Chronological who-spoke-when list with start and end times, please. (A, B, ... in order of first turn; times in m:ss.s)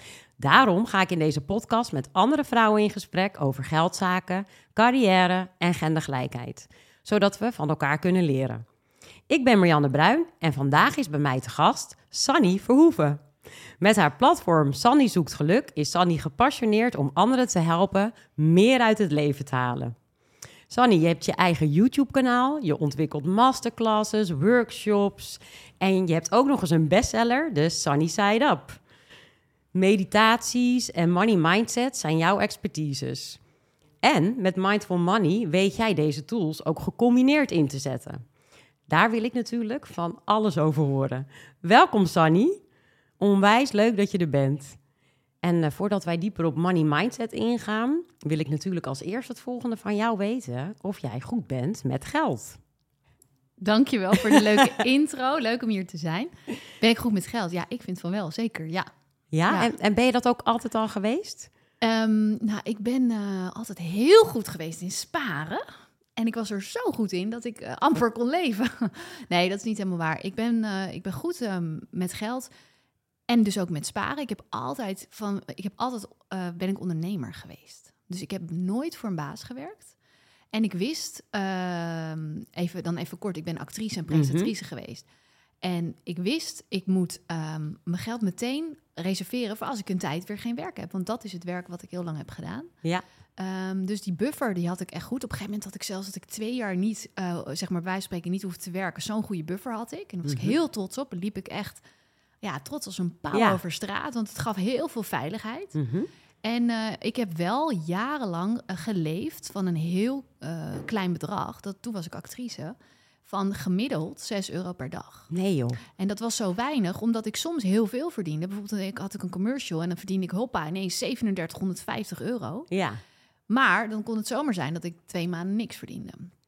0:00.4-0:08.6 A
0:09.3-0:13.2 A
0:13.8-0:20.0 A
0:20.7-0:28.8 A
0:29.7-0:33.4 A
0:34.0-0:38.2 A
0:38.9-0:42.6 A
0:43.2-0:44.8 A
0:45.4-0:52.6 A
0:53.6-0:58.9 B
0:54.3-0:54.6 A
0:59.3-1:01.5 A
1:01.8-1:12.5 B
1:13.3-1:19.9 B
1:20.5-1:25.0 B
1:24.1-1:24.5 A
1:25.6-1:32.7 B
1:33.4-1:41.8 B
1:40.2-1:40.6 A
1:42.4-1:45.8 B
1:43.3-1:43.6 A
1:45.8-1:46.1 A
1:46.4-1:55.3 B
1:55.3-1:55.8 A
1:55.9-2:02.7 B
2:02.7-2:03.0 A
2:03.5-2:06.3 B